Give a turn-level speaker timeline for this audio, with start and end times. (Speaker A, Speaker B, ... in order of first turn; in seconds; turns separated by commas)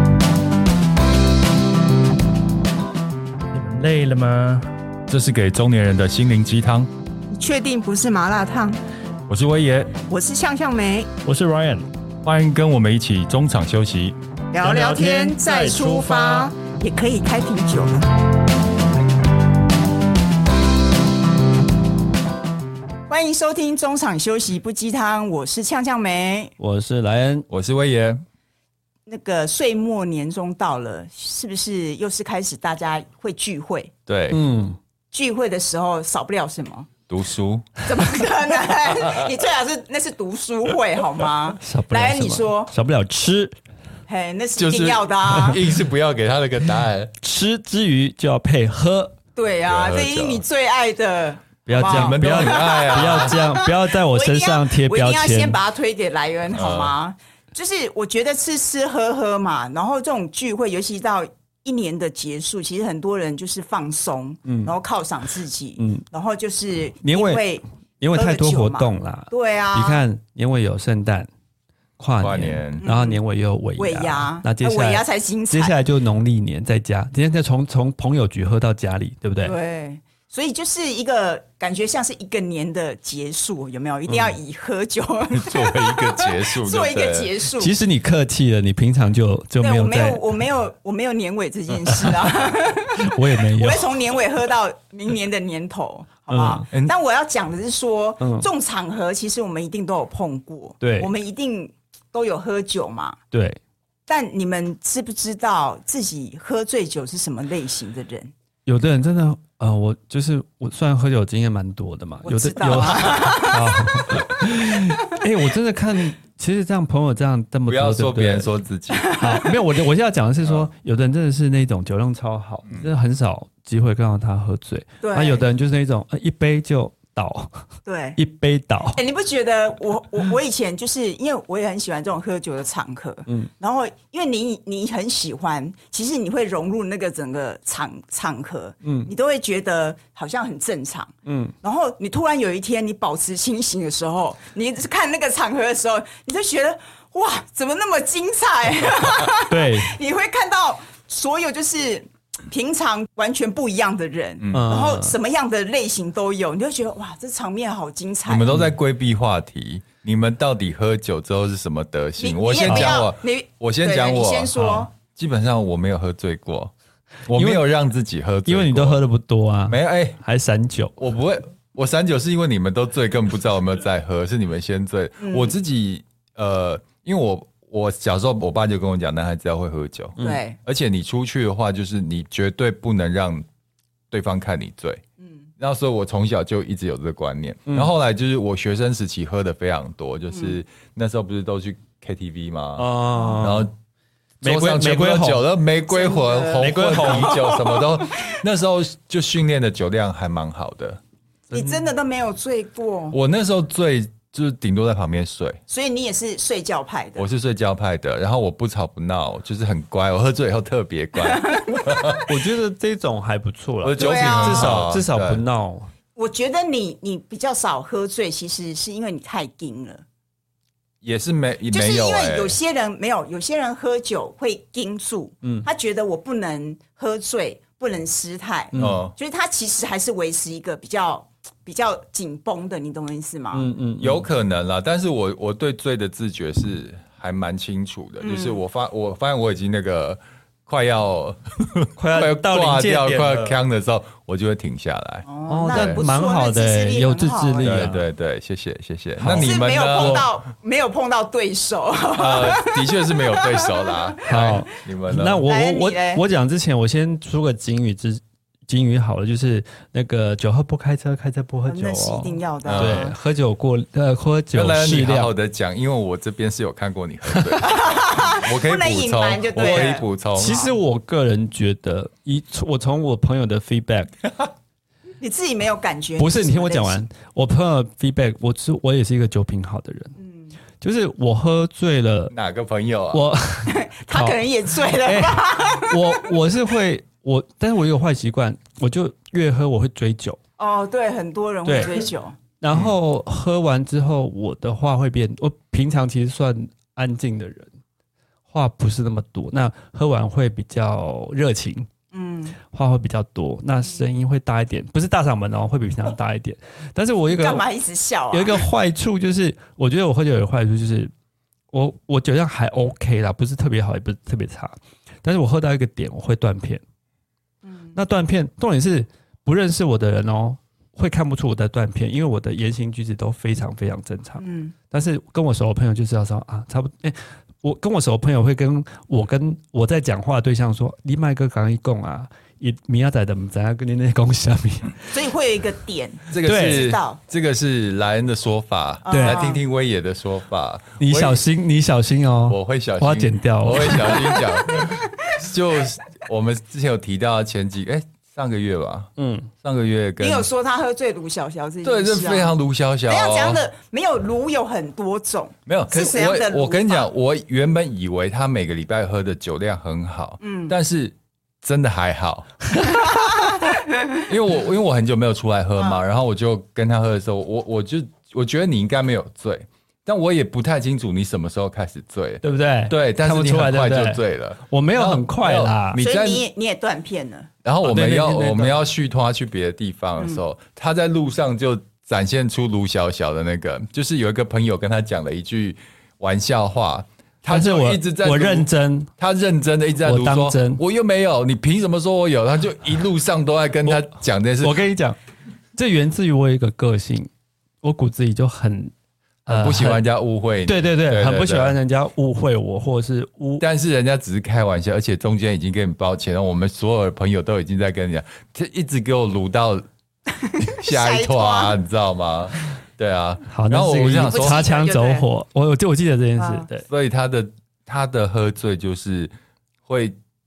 Speaker A: 3.5-4.7, Speaker B: 5.1-6.9, Speaker C: 7.3-8.8, Speaker B: 9.3-9.9, Speaker C: 10.1-11.1, Speaker A: 11.2-11.8, Speaker D: 11.3-11.6, Speaker B: 12.2-14.2, Speaker C: 14.5-18.1, Speaker A: 14.6-16.5, Speaker C: 23.1-26.5, Speaker D: 26.6-27.4, Speaker B: 27.5-28.2, Speaker C: 29.1-33.9, Speaker B: 34.1-34.4, Speaker D: 34.3-34.8, Speaker C: 35.1-36.9, Speaker B: 37.1-37.8, Speaker C: 37.8-42.7, Speaker D: 41.6-43.5, Speaker C: 44.1-45.6, Speaker B: 44.6-47.1, Speaker D: 47.2-49.1, Speaker C: 49.4-70.0, Speaker B: 49.7-50.4, Speaker D: 51.6-55.6, Speaker B: 51.7-53.4, Speaker B: 56.5-56.9, Speaker D: 64.5-64.7, Speaker D: 65.8-66.0, Speaker D: 67.0-71.3, Speaker D: 72.0-79.6, Speaker B: 72.2-72.8, Speaker C: 72.8-73.2, Speaker C: 73.8-75.8, Speaker C: 79.4-87.8, Speaker B: 85.3-87.3, Speaker D: 87.5-90.2, Speaker C: 89.6-103.2, Speaker D: 91.8-94.1, Speaker D: 96.3-96.7, Speaker D: 98.2-98.5, Speaker D: 100.8-101.1, Speaker D: 103.3-103.6, Speaker C: 104.1-108.3, Speaker D: 108.7-118.5, Speaker C: 112.2-113.9, Speaker B: 117.7-119.1, Speaker C: 119.0-119.6, Speaker D: 119.1-129.0, Speaker C: 125.0-125.4, Speaker C: 127.8-128.2, Speaker C: 128.9-158.5, Speaker D: 138.8-139.1, Speaker D: 141.2-141.5, Speaker D: 149.5-149.9, Speaker D: 154.5-155.2, Speaker B: 158.3-166.7, Speaker C: 162.2-164.9, Speaker D: 162.7-163.0, Speaker D: 164.6-164.9, Speaker B: 167.3-169.0, Speaker D: 167.3-167.6, Speaker D: 168.4-170.9, Speaker B: 169.7-170.2, Speaker B: 171.0-183.4, Speaker C: 175.2-175.5, Speaker D: 180.2-180.4, Speaker C: 180.2-180.6, Speaker B: 184.1-185.0, Speaker B: 185.6-193.7, Speaker D: 192.8-193.7, Speaker D: 194.4-195.5, Speaker B: 194.4-201.0, Speaker C: 195.9-198.3, Speaker D: 196.6-197.4, Speaker C: 201.5-203.2, Speaker D: 201.5-201.9, Speaker B: 203.1-205.6, Speaker C: 205.7-207.2, Speaker B: 207.2-212.3, Speaker C: 211.2-212.2, Speaker D: 212.2-215.9, Speaker B: 213.8-215.4, Speaker C: 214.0-214.8, Speaker C: 216.2-220.0, Speaker B: 221.0-222.6, Speaker C: 221.7-233.7, Speaker D: 228.7-229.0, Speaker B: 228.7-229.1, Speaker D: 233.5-234.2, Speaker B: 234.0-246.0, Speaker C: 238.2-238.6, Speaker D: 242.0-243.6, Speaker C: 245.2-247.9, Speaker D: 245.5-248.0, Speaker B: 247.6-250.3, Speaker D: 249.2-250.3, Speaker C: 249.3-254.3, Speaker B: 252.1-255.5, Speaker D: 254.2-265.3, Speaker C: 255.4-256.2, Speaker C: 261.6-263.1, Speaker B: 262.6-263.1, Speaker B: 264.5-270.7, Speaker C: 267.6-270.6, Speaker D: 269.6-274.1, Speaker C: 275.2-277.0, Speaker D: 276.2-280.1, Speaker C: 280.2-280.6, Speaker D: 280.8-282.3, Speaker B: 282.3-283.2, Speaker D: 283.1-290.4, Speaker C: 283.6-286.3, Speaker C: 290.6-292.4, Speaker D: 291.6-292.1, Speaker D: 292.6-297.7, Speaker D: 298.5-301.9, Speaker C: 302.1-302.6, Speaker D: 302.6-307.6, Speaker C: 307.3-308.7, Speaker D: 308.3-311.1, Speaker D: 311.7-316.8, Speaker C: 317.6-317.9, Speaker D: 317.9-335.2, Speaker C: 324.4-324.7, Speaker C: 335.1-337.2, Speaker B: 336.3-341.4, Speaker D: 336.4-336.9, Speaker C: 339.0-339.6, Speaker D: 339.1-339.4, Speaker D: 341.0-344.3, Speaker B: 342.5-349.1, Speaker D: 349.2-349.5, Speaker B: 349.6-350.5, Speaker C: 350.2-352.5, Speaker B: 351.8-353.6, Speaker C: 353.1-357.1, Speaker B: 355.6-363.3, Speaker C: 360.4-360.7, Speaker C: 362.9-364.2, Speaker B: 364.2-376.4, Speaker C: 365.8-366.0, Speaker D: 372.4-376.0, Speaker C: 376.0-377.5, Speaker B: 377.6-394.8, Speaker D: 377.8-378.8, Speaker D: 387.4-389.1, Speaker D: 390.0-390.8, Speaker D: 393.8-395.2, Speaker D: 395.7-397.3, Speaker D: 397.8-398.9, Speaker D: 399.4-400.0, Speaker B: 399.5-401.8, Speaker D: 400.6-403.6, Speaker B: 403.6-409.9, Speaker C: 410.5-411.7, Speaker B: 410.6-414.7, Speaker D: 413.5-416.9, Speaker C: 414.3-415.3, Speaker C: 416.4-416.7, Speaker B: 416.8-419.3, Speaker B: 419.9-420.2